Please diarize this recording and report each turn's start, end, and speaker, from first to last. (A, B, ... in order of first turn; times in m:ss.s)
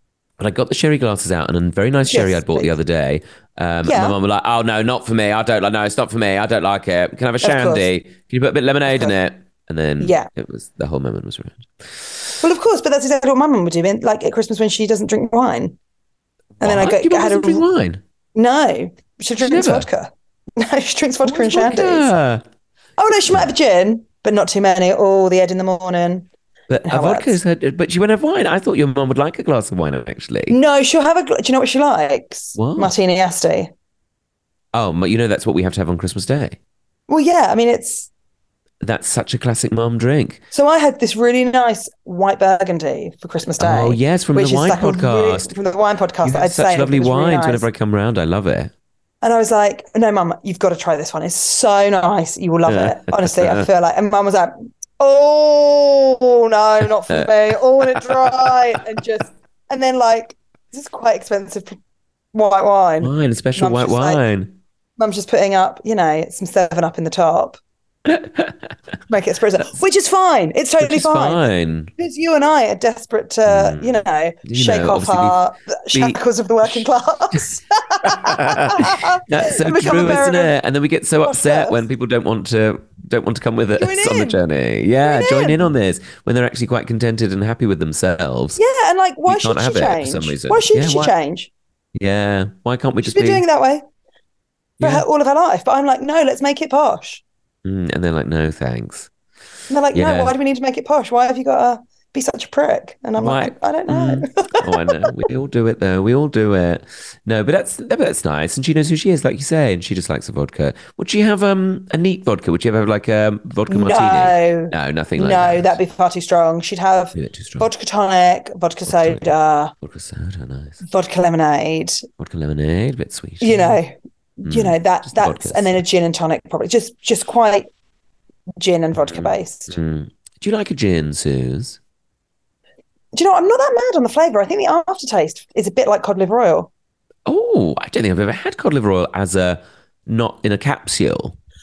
0:00.4-0:12.3 A
0:02.1-0:02.7 B
0:03.8-0:04.2 B
0:07.4-0:07.9 B
0:08.9-0:09.1 B
0:10.0-0:10.3 B
0:12.4-0:15.8 B
0:16.6-0:18.0 A
0:16.6-0:17.6 B
0:18.3-0:22.1 B
0:19.4-0:19.9 A
0:21.2-0:22.4 A
0:23.0-0:26.3 B
0:26.7-0:30.6 A
0:26.8-0:27.4 B
0:30.5-0:33.7 B
0:32.5-0:32.9 A
0:34.7-0:36.6 A
0:37.1-0:38.1 B
0:38.8-0:40.4 A
0:40.5-0:47.7 B
0:43.6-0:45.5 A
0:46.2-0:48.7 A
0:49.2-1:01.8 B
0:52.7-0:53.6 A
0:57.1-0:58.5 A
1:02.3-1:04.2 B
1:03.0-1:04.6 A
1:05.0-1:07.6 B
1:08.0-1:08.6 A
1:09.1-1:20.5 B
1:10.8-1:11.9 A
1:13.4-1:15.4 A
1:15.9-1:17.4 A
1:18.0-1:28.6 A
1:21.2-1:21.8 B
1:23.8-1:24.4 B
1:25.0-1:25.7 B
1:28.6-1:31.5 B
1:29.3-1:31.1 A
1:31.9-1:33.4 A
1:33.0-1:33.8 B
1:34.8-1:35.0 A
1:34.8-1:37.2 B
1:37.6-1:39.1 A
1:39.7-1:45.1 B
1:39.9-1:40.3 A
1:43.2-1:55.8 A
1:53.7-1:59.7 B
1:57.1-1:57.7 A
1:58.8-2:00.8 A
2:00.8-2:02.0 B
2:02.2-2:03.8 A
2:03.4-2:07.7 B
2:04.4-2:05.8 A
2:08.6-2:09.8 B
2:08.9-2:11.8 A
2:13.1-2:16.7 B
2:17.2-2:21.4 A